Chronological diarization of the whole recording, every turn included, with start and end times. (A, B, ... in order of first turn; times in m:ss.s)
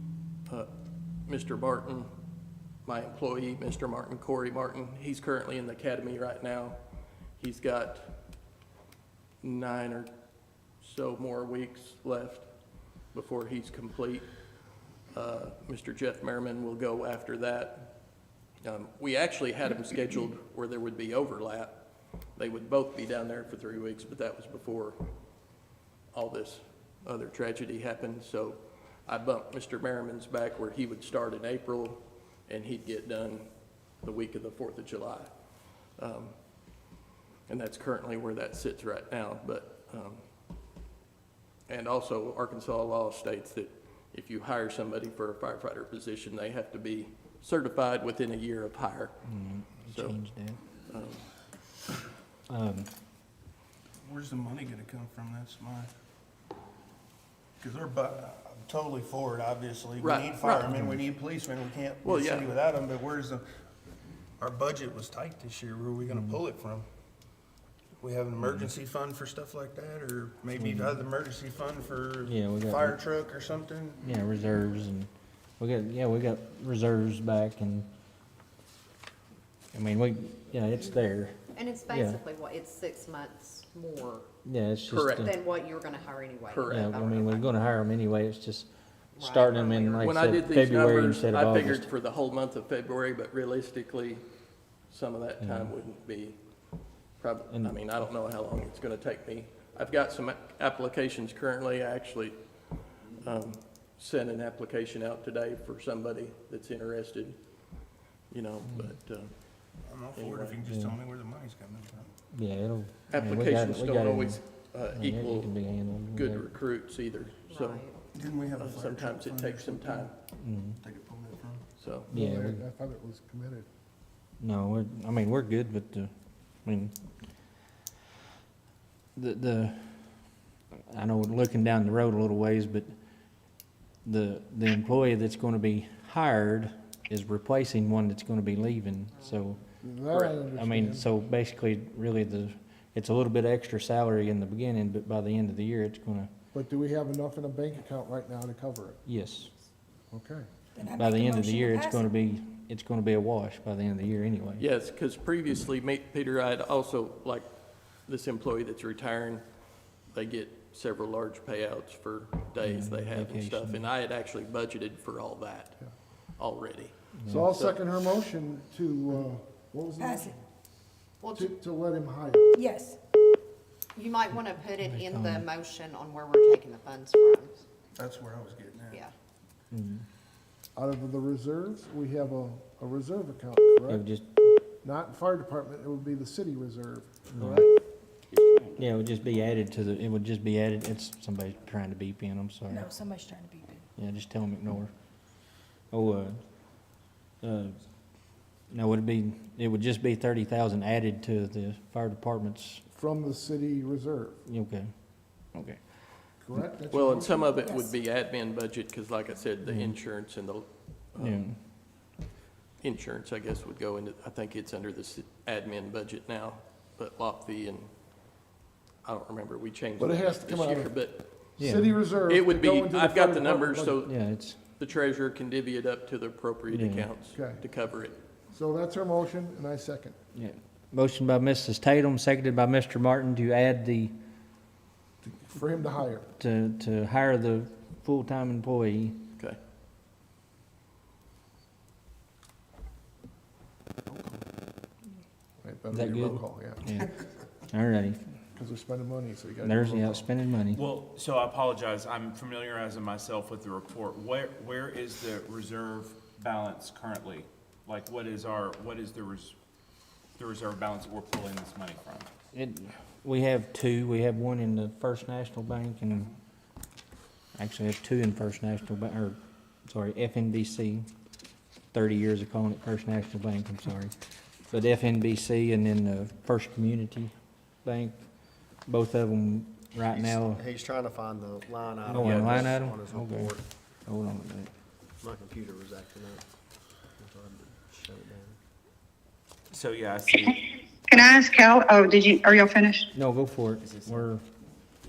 0:01.2-0:02.1 A
0:02.8-0:06.8 A
0:07.4-0:08.2 A
0:09.4-0:10.1 A
0:10.8-0:12.5 A
0:13.0-0:14.3 A
0:15.1-0:25.1 A
0:26.1-0:36.8 A
0:37.5-0:40.2 A
0:41.7-0:49.2 A
0:49.2-0:50.6 B
0:49.9-0:50.2 A
0:50.9-0:51.2 A
0:52.5-0:52.9 B
0:54.0-0:55.9 C
0:57.6-1:03.4 C
1:00.0-1:00.7 A
1:02.0-1:02.5 A
1:04.4-1:06.8 C
1:06.1-1:06.4 B
1:08.0-1:14.0 C
1:08.4-1:08.7 B
1:10.6-1:11.0 B
1:12.2-1:13.0 B
1:14.0-1:17.9 B
1:19.7-1:21.4 B
1:21.5-1:24.3 D
1:21.9-1:22.2 B
1:24.4-1:25.4 B
1:24.9-1:25.3 A
1:25.1-1:27.5 D
1:26.5-1:26.9 A
1:26.6-1:28.7 B
1:29.2-1:30.1 D
1:29.2-1:31.9 B
1:29.9-1:34.2 A
1:34.9-1:36.4 A
1:35.4-1:35.7 B
1:37.2-1:42.4 A
1:43.1-1:47.4 A
1:48.3-1:49.3 A
1:48.7-1:48.9 B
1:49.8-1:52.1 C
1:50.1-1:50.6 A
1:50.6-1:51.0 B
1:52.3-1:54.4 B
1:53.1-1:55.5 A
1:54.9-1:56.5 B
1:56.1-1:57.8 A
1:57.5-1:58.0 D
1:58.1-2:00.1 C
1:58.6-2:00.1 A
2:00.4-2:00.8 B
2:00.8-2:01.7 C
2:01.8-2:02.1 A
2:02.1-2:02.6 B
2:02.1-2:03.7 E
2:04.4-2:06.1 B
2:06.6-2:06.9 B
2:09.2-2:10.4 B
2:10.9-2:12.9 B
2:14.0-2:19.6 B
2:19.8-2:21.1 E
2:20.1-2:20.4 A
2:20.5-2:26.3 B
2:26.5-2:29.0 E
2:29.0-2:29.5 B
2:30.1-2:30.5 E
2:30.8-2:32.1 F
2:30.9-2:34.6 B
2:34.6-2:37.5 A
2:38.0-2:39.4 A
2:40.1-2:48.0 A
2:42.6-2:43.9 B
2:47.2-2:47.5 B
2:47.2-2:50.4 E
2:50.0-2:50.4 F
2:51.2-2:51.5 D
2:51.4-2:52.5 E
2:52.5-2:53.0 F
2:53.9-2:57.6 D
2:54.8-2:55.5 B
2:58.0-2:59.0 C
2:59.7-3:00.0 B
3:00.7-3:04.0 E
3:03.9-3:04.5 B
3:04.8-3:07.7 E
3:07.3-3:07.6 B
3:08.3-3:08.8 G
3:08.8-3:12.9 B
3:12.7-3:13.8 F
3:14.0-3:14.9 B
3:15.9-3:16.4 B
3:17.4-3:17.8 B
3:18.7-3:22.8 B
3:22.9-3:24.4 E
3:24.5-3:25.8 B
3:26.4-3:27.6 E
3:26.9-3:31.4 A
3:27.6-3:27.9 F
3:29.6-3:30.0 B
3:31.2-3:31.6 B
3:32.8-3:37.9 A
3:39.0-3:41.4 A
3:40.0-3:41.0 E
3:41.5-3:44.0 E
3:41.6-3:41.9 B
3:42.3-3:48.2 A
3:44.0-3:44.6 B
3:46.7-3:47.1 B
3:47.3-3:47.6 E
3:48.5-3:50.2 E
3:50.3-3:54.1 B
3:55.2-3:56.3 E
3:56.4-3:59.2 B
4:05.6-4:06.9 E
4:05.9-4:07.1 B
4:07.7-4:08.2 B
4:08.5-4:10.3 E
4:09.6-4:10.8 B
4:10.7-4:19.5 G
4:20.4-4:22.3 G
4:22.5-4:26.3 B
4:27.6-4:31.1 B
4:31.9-4:37.3 B
4:37.8-4:40.6 B
4:40.1-4:43.6 H
4:42.1-4:43.5 B
4:42.1-4:42.6 A
4:44.0-4:44.7 B
4:45.2-4:46.4 H
4:47.2-4:48.6 H
4:49.7-4:50.6 G
4:51.1-4:53.1 I
4:53.1-4:54.4 B
4:53.8-4:54.3 G